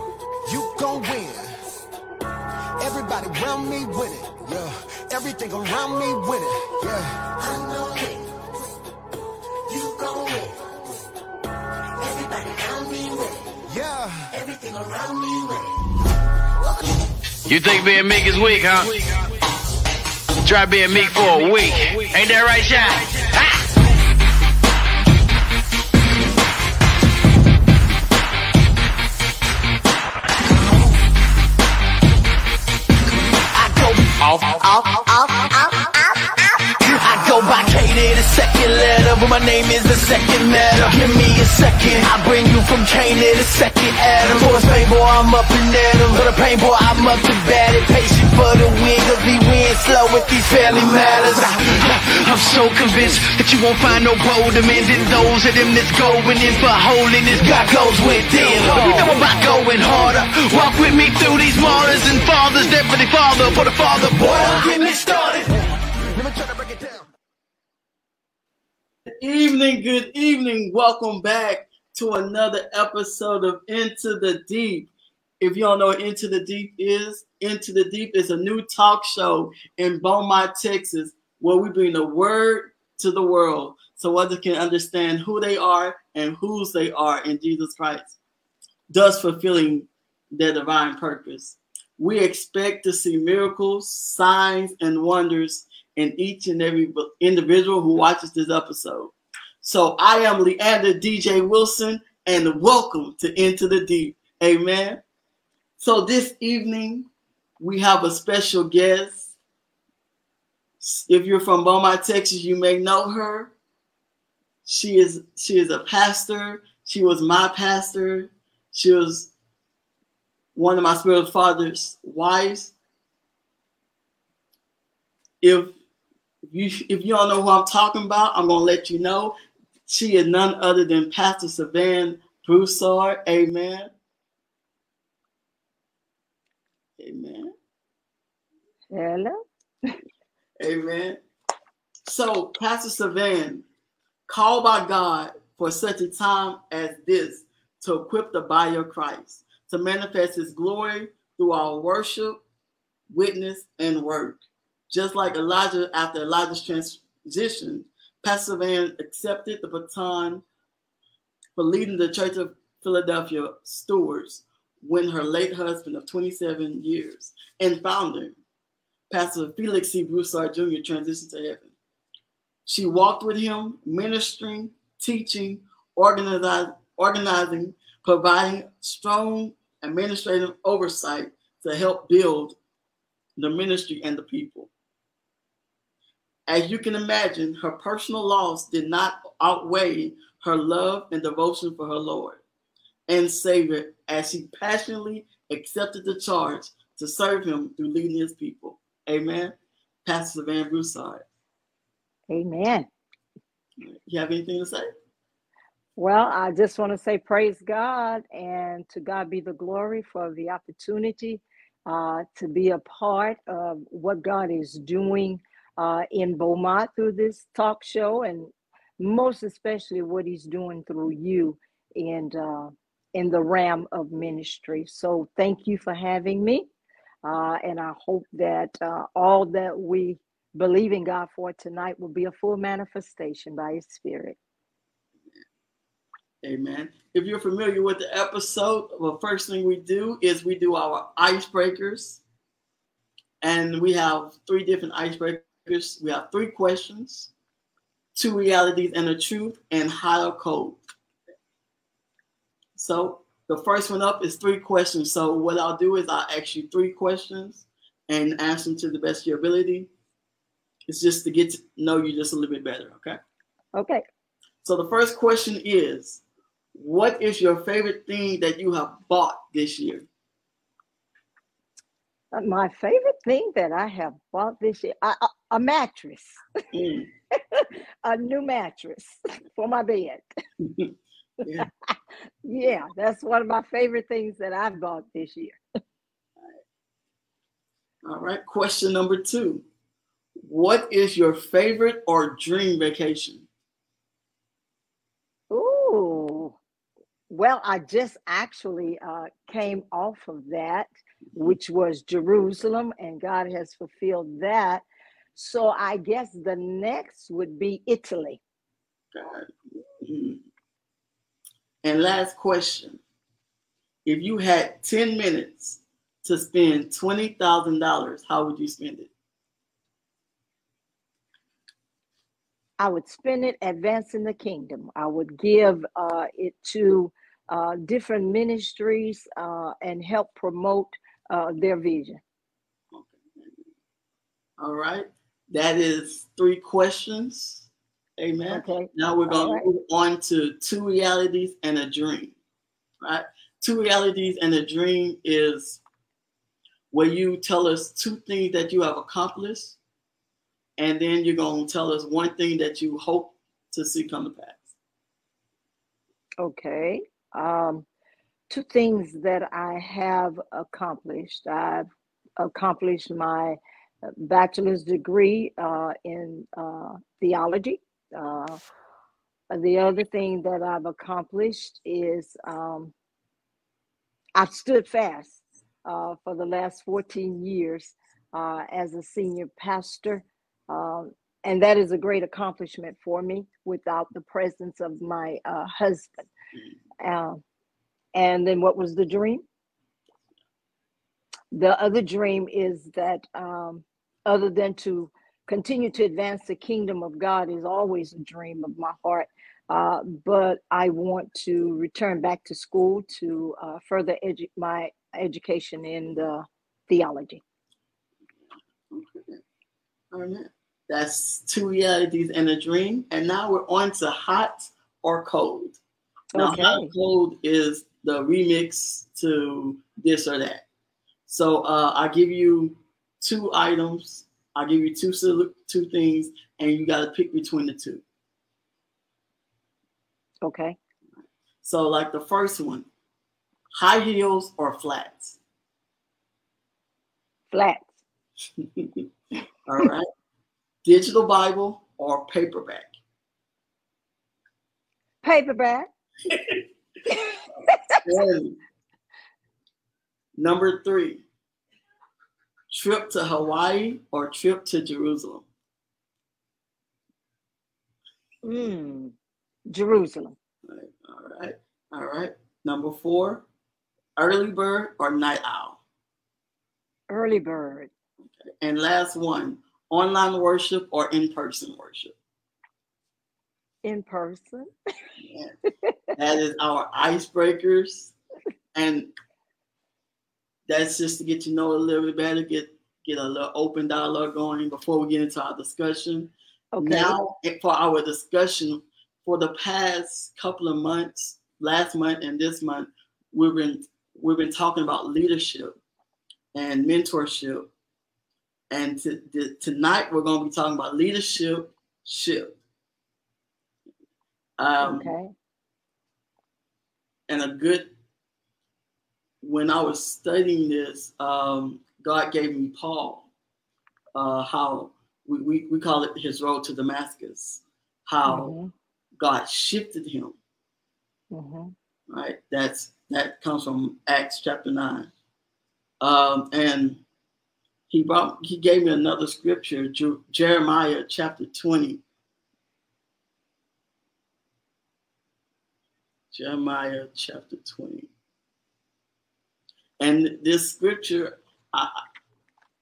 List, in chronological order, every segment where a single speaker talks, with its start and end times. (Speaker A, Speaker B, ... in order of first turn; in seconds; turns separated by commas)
Speaker A: 0.5-1.8, Speaker A: 2.8-7.2, Speaker B: 7.4-8.3, Speaker B: 9.7-10.9, Speaker B: 12.0-13.6, Speaker A: 13.7-14.3, Speaker B: 14.3-15.9, Speaker C: 17.4-19.3, Speaker C: 20.4-23.6, Speaker D: 33.5-34.2, Speaker C: 34.2-34.5, Speaker D: 36.8-65.5, Speaker A: 66.1-67.1, Speaker E: 69.0-88.2, Speaker E: 88.9-105.0, Speaker E: 105.8-107.1, Speaker E: 107.6-109.3, Speaker E: 110.8-113.5, Speaker E: 114.6-119.3, Speaker E: 120.5-122.7, Speaker E: 125.4-125.8, Speaker E: 126.5-129.3, Speaker E: 129.9-133.9, Speaker E: 137.0-137.5, Speaker F: 138.9-140.0, Speaker E: 140.6-141.2, Speaker E: 142.0-143.6, Speaker E: 144.3-152.4, Speaker E: 153.1-160.4, Speaker E: 161.6-168.3, Speaker E: 169.1-171.7, Speaker E: 172.7-182.6, Speaker E: 183.4-184.7, Speaker E: 186.5-192.4, Speaker E: 193.1-201.2, Speaker F: 202.3-202.9, Speaker E: 203.8-204.9, Speaker F: 205.9-226.7, Speaker F: 227.2-234.4, Speaker E: 236.4-242.2, Speaker E: 243.4-247.3, Speaker E: 248.2-250.8, Speaker E: 252.8-259.9, Speaker E: 260.9-263.2, Speaker F: 263.7-264.0, Speaker E: 264.6-266.2, Speaker E: 266.7-270.1, Speaker F: 272.3-276.4, Speaker E: 276.7-277.1, Speaker F: 277.4-280.2, Speaker E: 280.6-280.9, Speaker F: 281.6-281.9, Speaker F: 282.4-285.6, Speaker E: 288.0-289.6, Speaker E: 290.4-293.5, Speaker F: 295.5-296.6, Speaker F: 297.3-304.8, Speaker F: 305.3-308.4, Speaker E: 309.1-310.4, Speaker E: 311.8-313.0, Speaker E: 314.0-319.1, Speaker F: 322.8-332.2, Speaker E: 332.9-333.6, Speaker E: 334.6-342.3, Speaker F: 338.5-339.6, Speaker E: 343.0-345.8, Speaker E: 346.9-349.8, Speaker E: 350.8-354.7, Speaker F: 356.4-357.9, Speaker F: 358.5-361.9, Speaker F: 362.4-363.6, Speaker F: 364.2-368.6, Speaker F: 369.5-372.9, Speaker F: 374.4-386.3, Speaker F: 387.0-387.4, Speaker F: 388.1-389.4, Speaker F: 391.5-407.4, Speaker E: 408.9-409.4, Speaker E: 410.1-415.8, Speaker F: 416.3-416.9, Speaker E: 416.3-420.6, Speaker E: 421.3-428.0, Speaker F: 430.4-430.8, Speaker E: 431.6-432.9, Speaker E: 433.7-435.4, Speaker F: 437.5-437.9, Speaker E: 438.6-439.0, Speaker E: 439.6-440.1, Speaker E: 440.8-442.9, Speaker F: 445.2-445.9, Speaker F: 447.1-448.0, Speaker E: 448.0-448.6, Speaker E: 450.4-451.2, Speaker E: 452.7-455.5, Speaker F: 458.4-459.1, Speaker F: 459.7-460.4, Speaker E: 460.6-463.4, Speaker E: 464.2-465.8, Speaker F: 467.1-467.9, Speaker E: 468.2-472.1, Speaker F: 473.8-474.7, Speaker E: 475.2-475.5, Speaker E: 476.2-478.1, Speaker E: 478.7-479.1, Speaker E: 480.7-495.8, Speaker F: 486.7-487.2, Speaker E: 496.5-497.7, Speaker E: 498.7-502.6, Speaker E: 504.6-505.1, Speaker F: 504.8-505.3, Speaker E: 507.3-507.9, Speaker E: 509.4-513.3, Speaker E: 514.1-518.5, Speaker F: 518.3-518.7, Speaker E: 519.2-520.4, Speaker F: 521.3-521.7, Speaker E: 522.1-525.1, Speaker E: 526.0-527.0, Speaker E: 527.9-532.0, Speaker E: 536.3-538.1, Speaker E: 540.0-542.0